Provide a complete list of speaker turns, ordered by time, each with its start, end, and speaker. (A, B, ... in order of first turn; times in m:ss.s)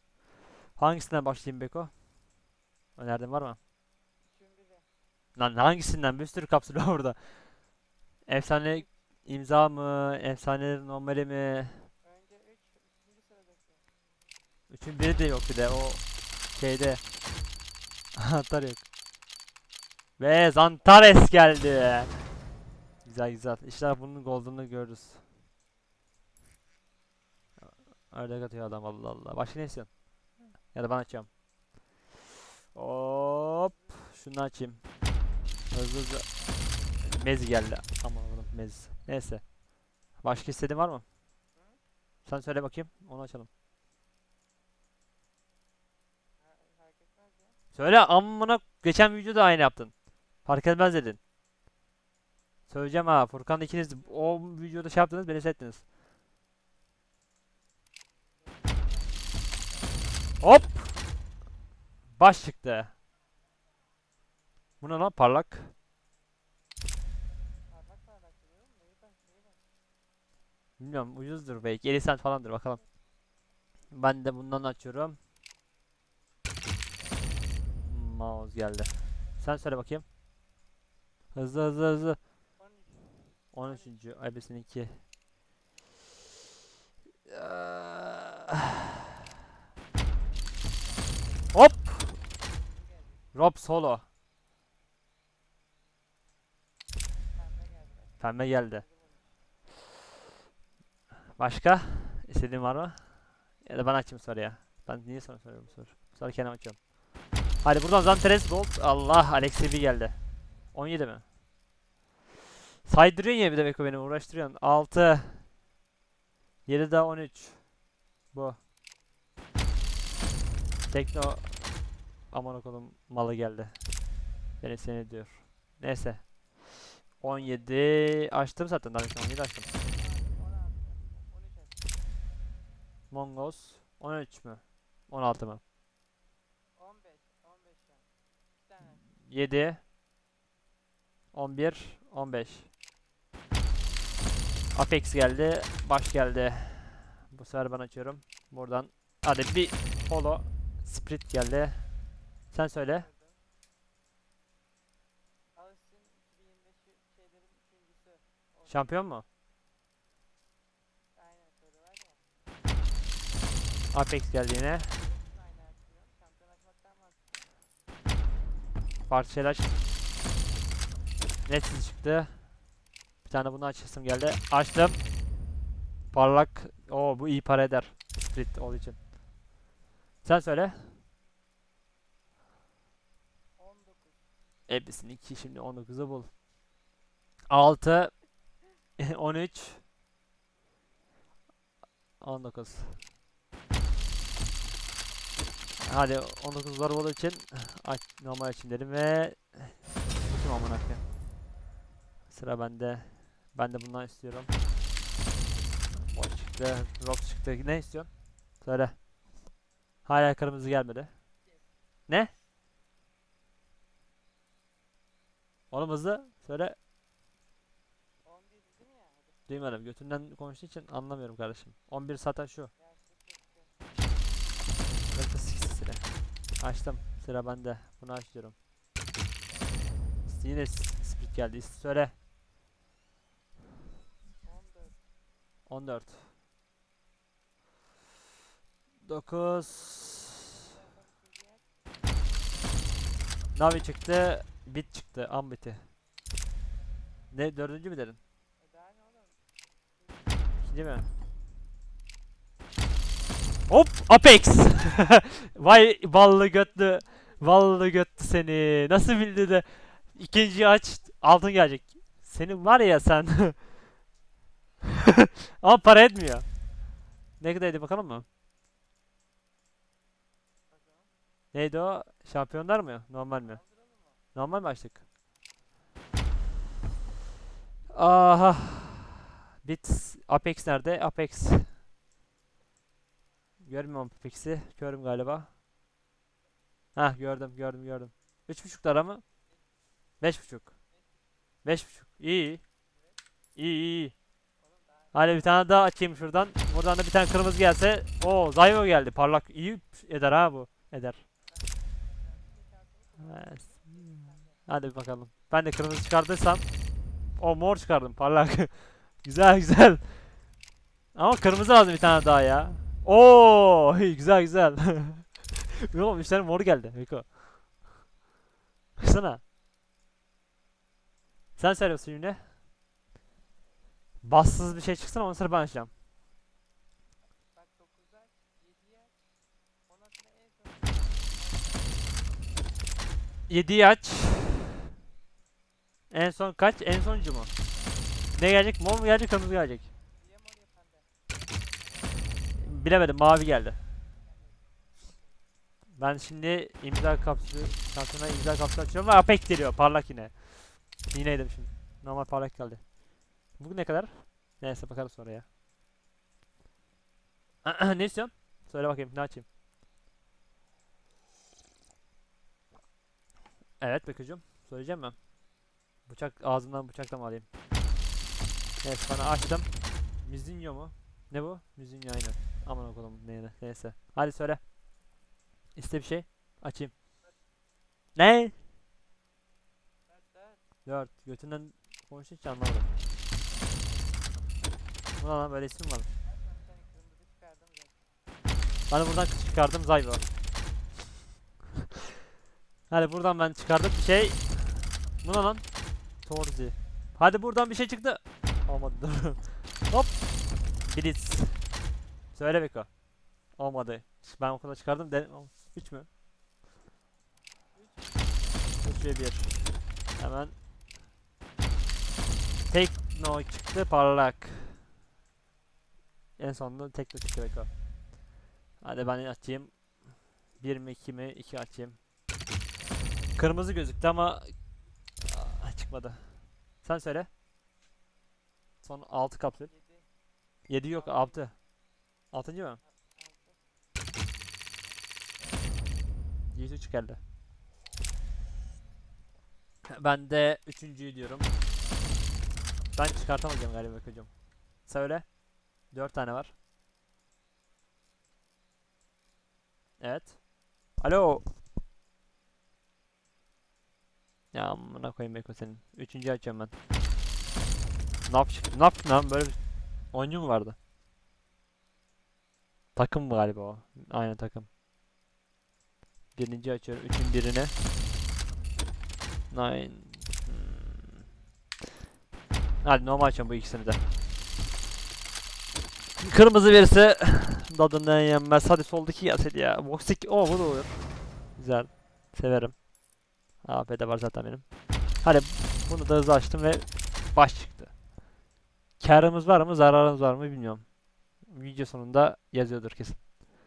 0:00.8-0:02.0 A
0:03.0-0:03.6 A
0:04.2-0:04.9 B
0:05.4-0:07.5 A
0:08.2-0:11.9 A
0:08.6-0:08.9 B
0:12.0-0:13.8 B
0:14.7-0:16.0 A
0:16.5-0:17.0 A
0:18.2-0:18.8 A
0:20.2-0:22.2 A
0:20.7-0:21.2 B
0:23.0-0:25.2 A
0:27.6-0:30.0 A
0:30.7-0:31.3 A
0:32.7-0:34.8 A
0:33.5-0:34.1 B
0:35.7-0:36.3 A
0:37.0-0:39.5 A
0:40.2-0:41.0 A
0:41.5-0:41.8 B
0:42.2-0:43.5 A
0:46.4-0:47.6 B
0:47.7-0:49.9 A
0:50.4-0:51.2 A
0:52.7-0:55.8 A
0:53.8-0:54.4 B
0:58.4-1:00.2 B
1:00.4-1:01.0 A
1:02.2-1:02.9 A
1:04.8-1:05.7 A
1:07.7-1:09.6 B
1:10.8-1:12.8 A
1:13.9-1:15.2 A
1:17.9-1:20.0 A
1:21.3-1:22.2 A
1:22.6-1:24.0 B
1:23.5-1:25.0 A
1:27.3-1:28.5 A
1:31.5-1:32.1 A
1:32.0-1:33.3 B
1:33.3-1:34.0 A
1:37.3-1:39.3 B
1:38.2-1:38.8 A
1:41.4-1:46.8 A
1:45.6-1:45.9 B
1:47.6-1:50.2 A
1:50.7-1:51.2 A
1:52.8-1:55.5 A
1:56.6-1:57.7 A
1:58.3-1:58.6 A
2:00.9-2:01.8 A
2:02.3-2:03.8 A
2:04.6-2:06.6 A
2:07.2-2:09.7 A
2:07.2-2:08.0 B
2:09.7-2:11.9 B
2:13.1-2:15.6 A
2:16.8-2:19.0 B
2:19.0-2:19.8 A
2:21.3-2:22.7 A
2:24.7-2:31.8 A
2:32.5-2:33.1 A
2:32.8-2:33.4 B
2:35.5-2:39.0 B
2:38.7-2:39.2 A
2:41.1-2:42.2 B
2:43.9-2:45.0 A
2:44.9-2:47.4 B
2:49.1-2:49.8 A
2:51.4-2:52.5 A
2:53.2-2:55.0 A
2:56.1-2:59.0 A
3:00.2-3:01.0 A
3:03.6-3:04.3 B
3:04.7-3:06.3 A
3:07.5-3:08.1 A
3:09.0-3:09.8 A
3:12.2-3:13.0 A
3:15.8-3:21.0 A
3:22.3-3:24.5 A
3:26.0-3:28.1 A
3:28.6-3:28.9 A
3:30.0-3:31.1 A
3:31.4-3:31.7 B
3:35.7-3:36.8 A
3:38.2-3:39.7 B
3:39.5-3:42.7 A
3:42.8-3:43.8 B
3:45.1-3:48.5 A
3:50.3-3:52.1 A
3:54.4-3:55.0 B
3:55.7-3:56.3 A
3:59.0-4:00.5 A
3:59.6-4:01.6 B
4:03.5-4:05.8 A
4:07.3-4:08.2 A
4:08.6-4:09.4 B
4:10.0-4:10.7 B
4:10.6-4:11.1 A
4:13.7-4:23.6 A
4:16.2-4:18.3 B
4:25.6-4:26.5 A
4:27.4-4:28.2 A
4:30.7-4:31.1 B
4:31.5-4:33.6 A
4:33.3-4:34.2 B
4:34.3-4:35.0 A
4:37.9-4:41.7 A
4:43.6-4:45.5 A
4:46.9-4:49.2 A
4:50.2-4:50.7 A
4:50.9-4:51.2 B
4:51.6-4:52.6 A
4:52.9-4:53.2 B
4:53.6-4:54.1 A
4:54.6-4:55.6 B
4:55.1-5:01.2 A
5:01.4-5:04.7 B
5:03.3-5:03.6 A
5:04.6-5:06.6 A
5:07.4-5:10.3 A
5:11.1-5:17.4 A
5:19.0-5:19.4 A
5:21.6-5:22.5 A
5:24.2-5:25.9 A
5:27.5-5:29.1 B
5:29.8-5:32.6 B
5:33.5-5:34.7 A
5:36.1-5:37.5 A
5:38.3-5:39.9 A
5:40.2-5:42.4 B
5:42.6-5:43.8 A
5:44.2-5:45.4 B
5:46.0-5:52.8 A
5:53.6-5:55.4 A
5:57.6-5:59.4 A
6:03.8-6:05.2 A
6:06.1-6:07.5 A
6:08.8-6:14.6 A
6:15.8-6:16.9 A
6:18.2-6:18.6 A
6:20.1-6:20.6 B
6:20.8-6:22.9 A
6:25.2-6:26.1 A
6:26.2-6:28.1 B
6:28.9-6:30.3 A
6:32.9-6:35.6 A
6:36.2-6:40.2 A
6:40.8-6:41.8 A
6:42.3-6:42.9 A
6:43.6-6:46.1 A
6:47.7-6:48.8 B
6:48.8-6:50.6 A
6:52.7-6:54.8 A
6:56.4-6:57.7 A
6:58.8-6:59.8 A
7:00.6-7:02.0 A
7:03.3-7:04.5 A
7:05.2-7:06.3 A
7:06.8-7:07.3 A
7:08.8-7:09.7 A
7:09.6-7:10.1 B
7:10.7-7:11.5 A
7:10.9-7:11.5 B
7:12.3-7:12.8 A
7:12.8-7:13.6 B
7:16.5-7:17.2 A
7:19.9-7:21.5 A
7:22.9-7:24.3 A
7:24.8-7:25.3 A
7:25.9-7:26.5 A
7:30.0-7:30.4 A
7:31.0-7:31.4 A
7:34.5-7:36.7 A
7:38.2-7:39.6 A
7:40.1-7:40.8 A
7:43.0-7:44.7 A
7:46.3-7:47.7 A
7:49.5-7:51.2 A
7:52.8-7:54.0 A
7:56.2-8:02.8 A
8:03.6-8:04.7 A
8:05.2-8:07.9 A
8:09.0-8:10.9 A
8:11.5-8:13.2 A